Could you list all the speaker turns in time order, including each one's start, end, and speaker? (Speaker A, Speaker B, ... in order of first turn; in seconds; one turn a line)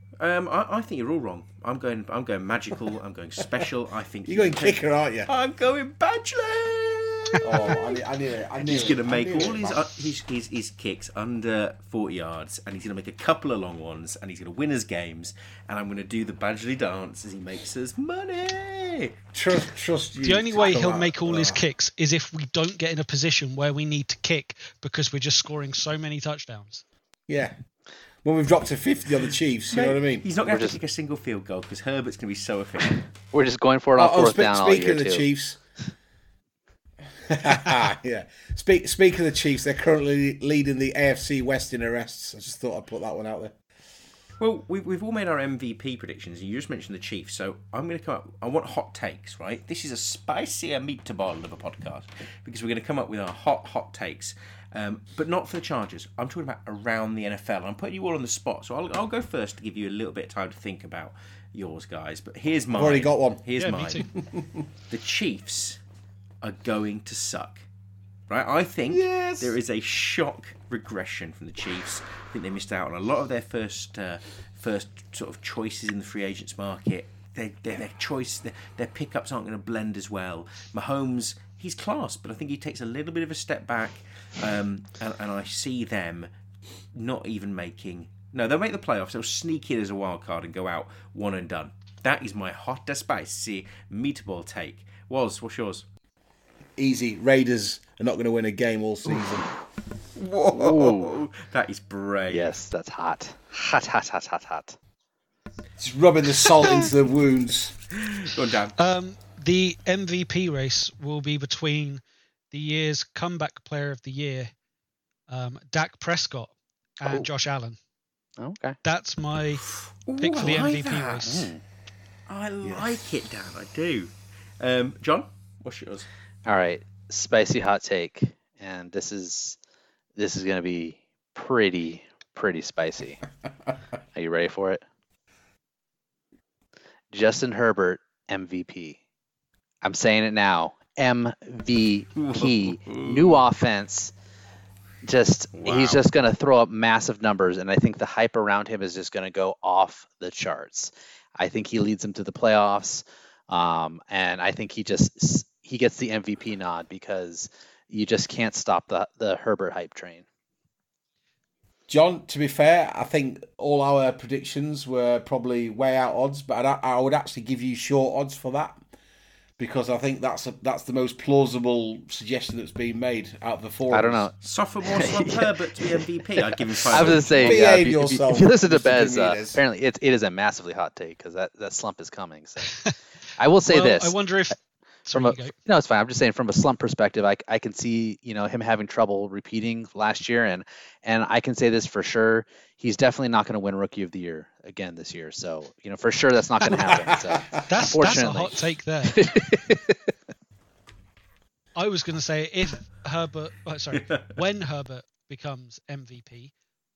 Speaker A: 0.2-7.8
Speaker B: 4.2-5.3
Speaker B: 7.4-9.8
Speaker A: 8.6-19.1
Speaker B: 19.3-21.6
Speaker C: 20.2-26.8
Speaker B: 27.3-27.6
Speaker B: 28.2-30.2
Speaker A: 29.7-33.1
Speaker D: 30.4-30.8
Speaker D: 33.3-35.2
Speaker B: 34.0-35.6
Speaker B: 37.3-43.5
Speaker A: 44.4-64.1
Speaker B: 62.7-63.4
Speaker C: 63.6-64.1
Speaker B: 64.2-64.6
Speaker A: 64.9-65.8
Speaker A: 66.4-67.7
Speaker A: 68.3-86.3
Speaker B: 68.9-69.5
Speaker A: 86.9-95.8
Speaker B: 96.8-99.5
Speaker A: 100.2-102.5
Speaker D: 100.5-101.2
Speaker D: 102.3-104.8
Speaker B: 105.8-107.7
Speaker A: 107.9-108.8
Speaker C: 108.8-114.5
Speaker C: 115.3-117.8
Speaker D: 118.4-118.8
Speaker C: 118.8-119.6
Speaker A: 119.7-121.4
Speaker C: 120.2-121.5
Speaker D: 121.2-121.6
Speaker A: 122.3-126.1
Speaker B: 122.6-122.9
Speaker D: 126.4-129.6
Speaker D: 130.2-133.2
Speaker D: 134.1-134.8
Speaker D: 137.1-139.0
Speaker D: 139.8-144.1
Speaker A: 142.2-143.4
Speaker D: 145.0-160.2
Speaker A: 145.5-146.0
Speaker B: 161.9-168.8
Speaker B: 169.6-174.2
Speaker D: 173.9-182.8
Speaker A: 174.4-177.6
Speaker B: 177.0-179.6
Speaker D: 183.4-184.1
Speaker C: 183.7-185.5
Speaker D: 185.1-200.1
Speaker C: 197.7-199.2
Speaker C: 201.8-206.5